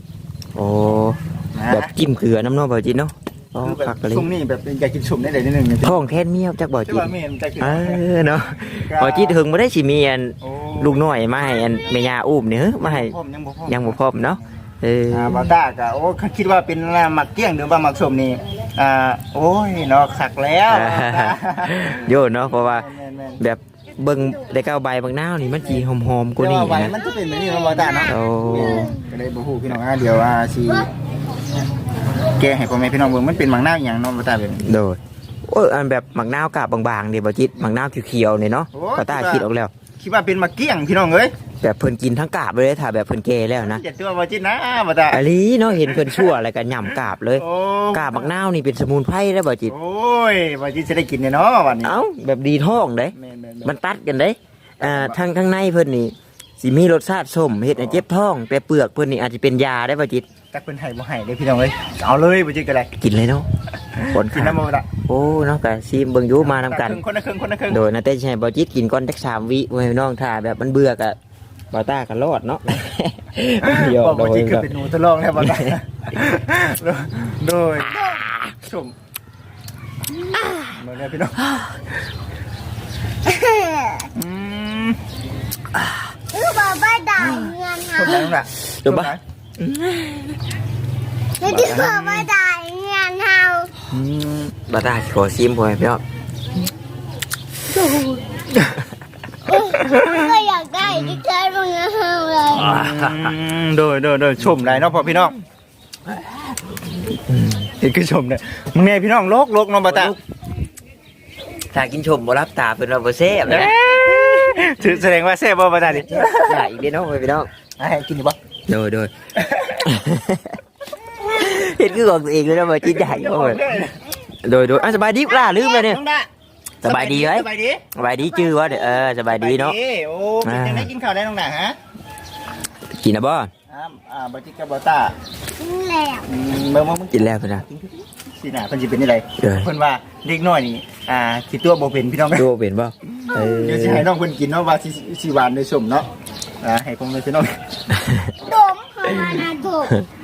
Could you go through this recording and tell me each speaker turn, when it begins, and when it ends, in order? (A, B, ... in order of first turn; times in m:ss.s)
0:00.5-0:04.3 A
0:01.5-0:01.9 B
0:03.6-0:06.0 B
0:05.8-0:13.1 A
0:06.9-0:08.0 B
0:08.8-0:09.4 B
0:10.4-0:11.0 B
0:12.8-0:14.6 B
0:13.7-0:15.5 A
0:15.1-0:23.4 B
0:20.7-0:22.8 A
0:23.4-0:26.9 A
0:26.4-0:30.9 B
0:28.0-0:29.0 A
0:32.3-0:34.6 B
0:34.6-0:39.7 A
0:38.7-0:39.4 B
0:40.0-0:41.3 B
0:41.6-0:43.8 A
0:43.6-0:45.2 B
0:45.1-0:49.7 A
0:45.8-0:46.3 B
0:47.4-0:48.3 B
0:49.7-0:52.0 B
0:51.8-1:00.2 A
0:53.2-0:53.8 B
0:54.8-0:55.2 B
0:57.7-0:58.0 B
1:00.5-1:02.9 B
1:03.0-1:03.5 A
1:03.9-1:04.9 B
1:04.1-1:07.0 A
1:06.4-1:07.8 B
1:07.7-1:11.2 A
1:11.7-1:14.7 A
1:13.6-1:18.9 B
1:15.4-1:15.7 A
1:20.6-1:21.4 B
1:21.4-1:21.8 A
1:23.2-1:24.1 C
1:24.1-1:25.0 B
1:25.7-1:26.1 A
1:26.3-1:28.1 C
1:27.2-1:27.5 A
1:27.9-1:29.2 B
1:28.0-1:30.4 A
1:31.4-1:33.7 C
1:31.4-1:32.2 A
1:31.6-1:32.2 B
1:33.9-1:34.5 B
1:34.7-1:36.0 A
1:37.8-1:38.8 A
1:39.4-1:42.8 C
1:39.7-1:40.2 B
1:40.8-1:41.2 B
1:42.5-1:43.4 A
1:42.5-1:45.3 B
1:44.4-1:45.4 A
1:46.0-1:47.7 A
1:47.8-1:50.1 B
1:49.9-1:50.2 A
1:51.7-1:54.9 A
1:53.5-1:56.6 B
1:55.8-1:57.5 A
1:57.8-1:58.4 B
1:58.7-1:59.1 A
1:59.4-1:59.9 B
1:59.8-2:00.6 A
2:01.2-2:03.6 A
2:02.7-2:04.0 B
2:04.4-2:06.0 A
2:05.6-2:06.3 B
2:06.8-2:09.8 A
2:06.8-2:07.8 B
2:08.2-2:09.1 C
2:09.3-2:11.8 B
2:10.4-2:10.9 A
2:13.0-2:13.5 A
2:13.7-2:15.1 B
2:15.6-2:16.3 C
2:16.2-2:22.5 B
2:17.1-2:17.6 A
2:19.4-2:19.7 A
2:22.3-2:24.1 A
2:23.2-2:26.1 B
2:26.6-2:27.6 B
2:27.9-2:28.3 A
2:28.4-2:30.0 C